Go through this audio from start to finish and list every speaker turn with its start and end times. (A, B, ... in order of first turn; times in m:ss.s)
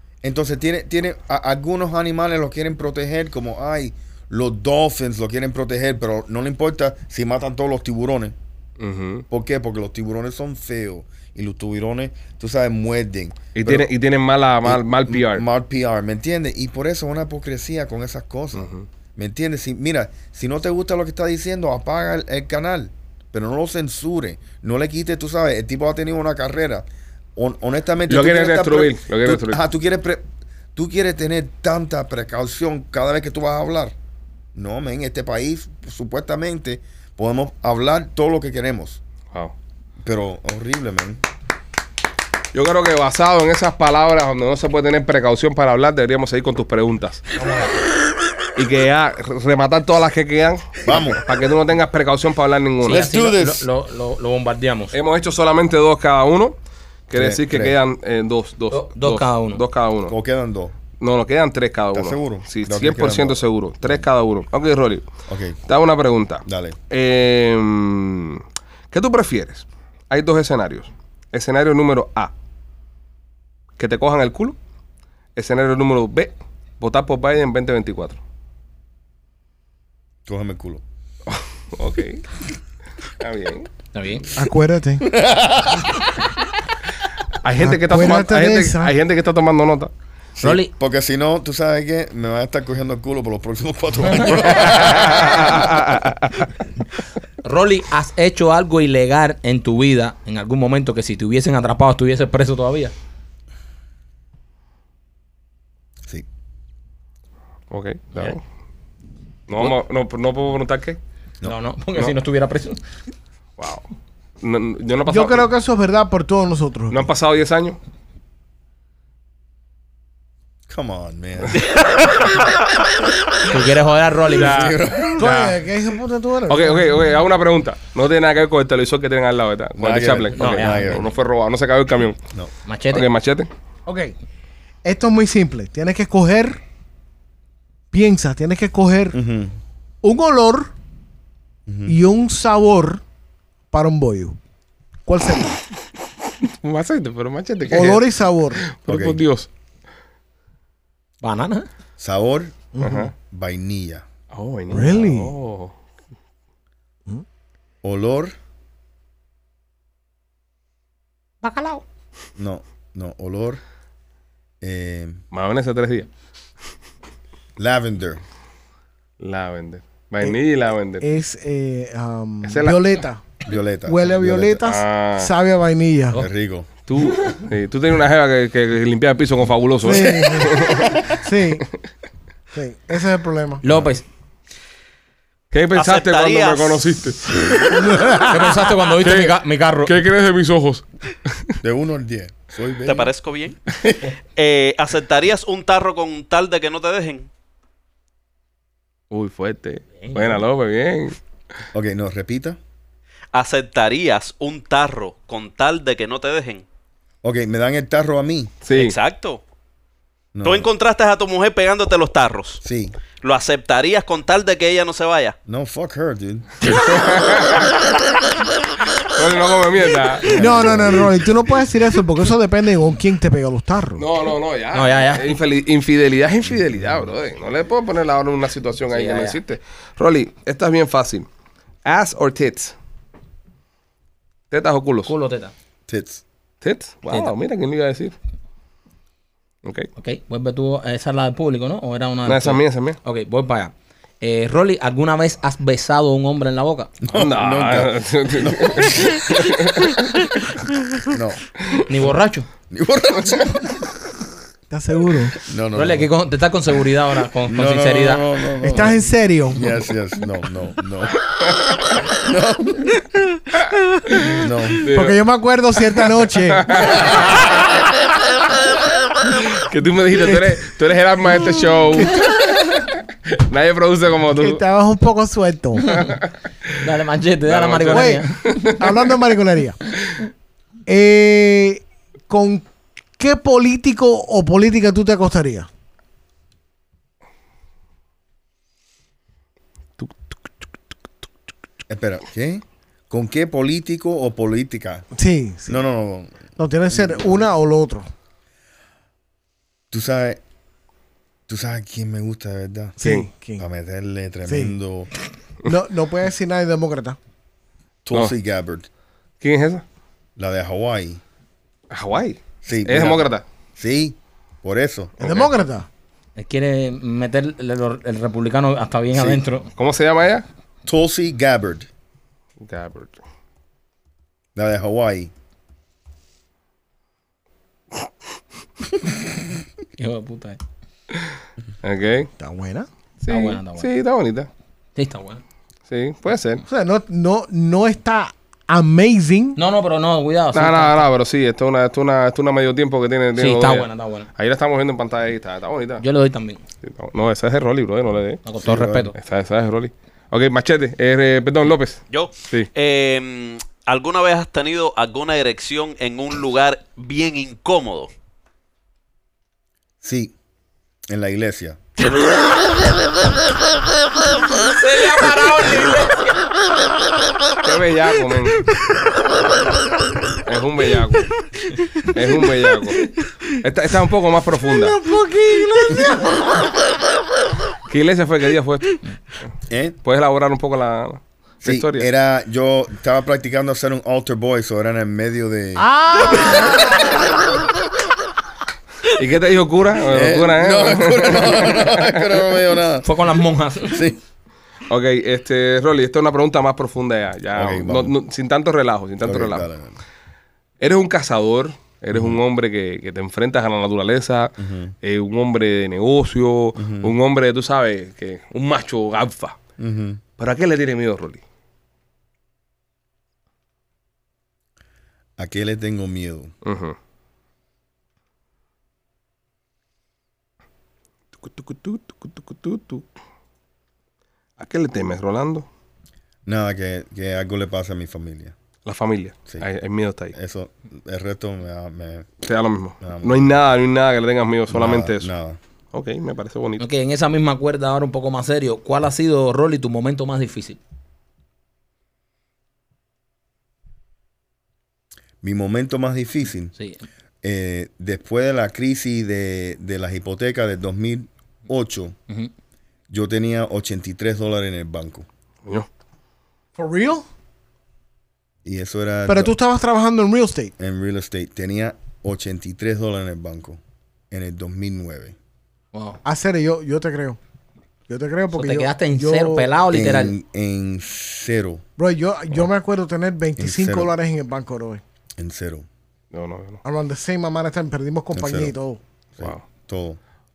0:00.2-0:08.4 A
0:08.8-0:09.2 B
0:09.3-0:13.9 A
0:13.5-0:15.4 B
0:14.6-0:33.9 A
0:18.6-0:18.8 B
0:28.1-0:29.6 B
0:34.5-0:39.0 A
0:40.0-0:41.2 A
0:42.5-0:47.2 B
0:47.4-0:47.7 C
0:48.5-0:53.1 B
0:50.8-0:51.2 A
0:52.8-0:55.0 C
0:52.9-0:53.7 A
0:54.9-0:56.6 B
0:57.1-1:00.1 B
0:57.1-0:57.8 A
0:58.7-0:59.6 C
1:00.1-1:00.7 A
1:01.0-1:05.0 B
1:01.9-1:04.0 A
1:05.3-1:05.6 A
1:05.7-1:12.3 B
1:06.4-1:06.8 A
1:13.8-1:14.6 B
1:15.4-1:18.2 B
1:20.3-1:20.8 A
1:21.7-1:22.2 B
1:23.2-1:23.7 B
1:23.9-1:24.3 C
1:24.4-1:25.1 D
1:25.0-1:26.0 A
1:27.3-1:29.9 B
1:27.6-1:28.9 D
1:30.4-1:35.8 A
1:30.4-1:30.7 C
1:34.5-1:36.5 B
1:37.4-1:42.9 C
1:47.7-1:48.4 B
1:49.5-1:51.0 B
1:51.4-1:52.8 C
1:53.6-1:53.8 B
1:54.4-1:55.5 B
1:55.1-1:57.0 D
1:56.9-1:57.8 B
2:00.7-2:01.8 A
2:03.4-2:04.7 C
2:04.3-2:05.2 A
2:04.3-2:05.6 B
2:05.2-2:06.9 D
2:06.5-2:12.2 B
2:09.8-2:11.1 A
2:10.3-2:11.0 C
2:12.6-2:13.1 C
2:12.9-2:13.5 B
2:13.9-2:14.1 D
2:14.8-2:16.6 D
2:17.9-2:19.2 D
2:19.1-2:19.6 A
2:20.0-2:20.7 D
2:21.7-2:22.0 A
2:21.9-2:23.0 D
2:23.7-2:24.4 D
2:25.0-2:25.6 D
2:26.4-2:29.5 B
2:27.7-2:28.6 D
2:28.9-2:29.1 A
2:31.2-2:31.7 C
2:32.0-2:32.5 A
2:32.7-2:33.1 D
2:32.8-2:33.1 B
2:33.3-2:34.0 A
2:34.3-2:35.7 B
2:34.7-2:35.3 D
2:37.8-2:38.3 A
2:41.4-2:41.8 C
2:42.4-2:43.6 A
2:44.6-2:45.2 A
2:45.3-2:46.1 B
2:47.6-2:48.2 A
2:49.2-2:51.0 B
2:51.0-2:53.2 D
2:52.4-2:53.0 B
2:53.4-2:54.6 A
2:53.9-2:56.2 D
2:54.6-2:55.3 B
2:56.1-2:56.7 A
2:56.9-3:00.9 B
2:59.8-3:00.6 D
3:01.2-3:01.6 D
3:02.5-3:03.6 D
3:03.6-3:04.0 C
3:05.5-3:07.4 B
3:05.7-3:06.9 E
3:07.6-3:08.7 D
3:08.3-3:09.9 C
3:09.0-3:10.8 B
3:11.6-3:13.1 A
3:12.8-3:13.6 E
3:14.4-3:17.3 E
3:19.1-3:21.2 B
3:20.0-3:20.4 C
3:21.7-3:22.6 A
3:23.3-3:26.6 E
3:27.2-3:28.5 A
3:28.6-3:28.9 B
3:28.7-3:29.4 E
3:30.3-3:30.7 A
3:30.4-3:32.6 E
3:32.6-3:33.0 A
3:33.2-3:35.3 E
3:35.4-3:36.8 A
3:36.6-3:37.9 B
3:39.0-3:40.8 B
3:40.2-3:41.2 A
3:40.3-3:44.0 D
3:44.0-3:51.3 B
3:44.7-3:45.4 C
3:48.9-3:49.4 C
3:51.8-3:52.7 B
3:54.5-3:55.1 B
3:55.1-3:55.5 C
3:55.9-3:56.2 A
3:56.6-3:58.1 B
3:59.6-3:59.9 B
4:00.0-4:06.9 C
4:02.2-4:03.0 B
4:07.0-4:09.5 A
4:07.1-4:10.0 B
4:11.0-4:11.4 A
4:11.8-4:12.5 C
4:12.7-4:13.9 A
4:14.7-4:15.4 D
4:15.4-4:16.1 A
4:15.7-4:18.2 C
4:17.5-4:21.2 A
4:18.6-4:19.7 D
4:21.5-4:21.9 B
4:22.1-4:22.9 A
4:24.4-4:24.9 A
4:24.8-4:25.2 B
4:24.9-4:26.9 D
4:26.4-4:27.8 B
4:29.2-4:34.6 B
4:34.4-4:36.1 D
4:36.8-4:38.7 C
4:37.5-4:38.9 B
4:37.9-4:39.8 D
4:40.8-4:42.6 D
4:43.2-4:45.7 D
4:51.9-4:55.0 A
4:55.2-4:55.8 D
4:55.7-4:57.5 A
4:56.6-4:58.1 D
4:59.9-5:00.4 A
5:01.5-5:03.0 A
5:03.0-5:03.6 D
5:03.6-5:05.1 A
5:04.5-5:04.7 D
5:05.6-5:07.2 D
5:08.0-5:08.9 A
5:09.4-5:09.8 B
5:10.4-5:11.2 A
5:11.9-5:13.4 B
5:12.6-5:15.1 A
5:15.2-5:15.6 B
5:15.2-5:15.9 D
5:16.4-5:19.7 C
5:19.1-5:19.4 A
5:19.8-5:20.4 B
5:20.8-5:21.9 A
5:22.6-5:23.2 B
5:24.5-5:25.3 A
5:30.0-5:30.6 C
5:31.8-5:32.3 B
5:32.4-5:32.9 D
5:33.2-5:34.5 B
5:33.3-5:33.9 C
5:35.0-5:35.4 C
5:35.9-5:36.6 B
5:36.7-5:39.6 D
5:39.6-5:41.0 C
5:40.5-5:46.0 B
5:43.4-5:44.3 C
5:46.0-5:46.6 C
5:46.8-5:48.4 B
5:48.4-5:49.1 C
5:48.6-5:49.1 A
5:49.2-5:52.7 B
5:52.1-5:58.1 E
6:00.0-6:00.3 A
6:01.1-6:01.8 A
6:04.3-6:06.4 C
6:07.6-6:08.7 B
6:10.4-6:11.3 B
6:12.0-6:13.0 B
6:13.6-6:15.0 B
6:14.7-6:16.6 D
6:17.9-6:19.0 B
6:19.7-6:20.0 A
6:20.0-6:22.1 B
6:21.6-6:26.7 A
6:25.8-6:26.8 D
6:29.1-6:32.4 B
6:30.1-6:33.2 A
6:33.0-6:34.0 C
6:33.9-6:34.2 A
6:34.9-6:39.7 B
6:37.5-6:38.1 A
6:39.2-6:40.0 A
6:40.8-6:49.6 B
6:42.1-6:42.4 A
6:44.6-6:44.9 A
6:46.8-6:47.1 A
6:49.8-6:50.2 A
6:50.4-6:51.4 B
6:55.4-6:56.5 A
6:56.6-6:57.0 B
7:01.4-7:03.0 B
7:04.6-7:05.6 B
7:06.4-7:08.5 A
7:08.8-7:10.3 B
7:10.3-7:12.3 A
7:12.4-7:15.3 B
7:13.0-7:13.4 A
7:14.7-7:15.6 A
7:15.9-7:16.8 B
7:16.8-7:20.8 C
7:25.4-7:26.7 A
7:27.4-7:32.2 A
7:33.1-7:35.3 A
7:36.8-7:37.2 D
7:38.6-7:39.6 A
7:39.3-7:40.7 D
7:40.8-7:45.4 A
7:45.9-7:46.2 C
7:46.2-7:47.4 D
7:48.1-7:49.7 D
7:48.5-7:50.3 C
7:49.9-7:51.8 A
7:52.0-7:55.0 D
7:53.6-7:54.1 A
7:55.4-7:55.9 A
7:56.3-7:56.8 B
7:56.8-7:59.0 D
7:58.3-7:58.7 A
7:59.4-8:00.2 A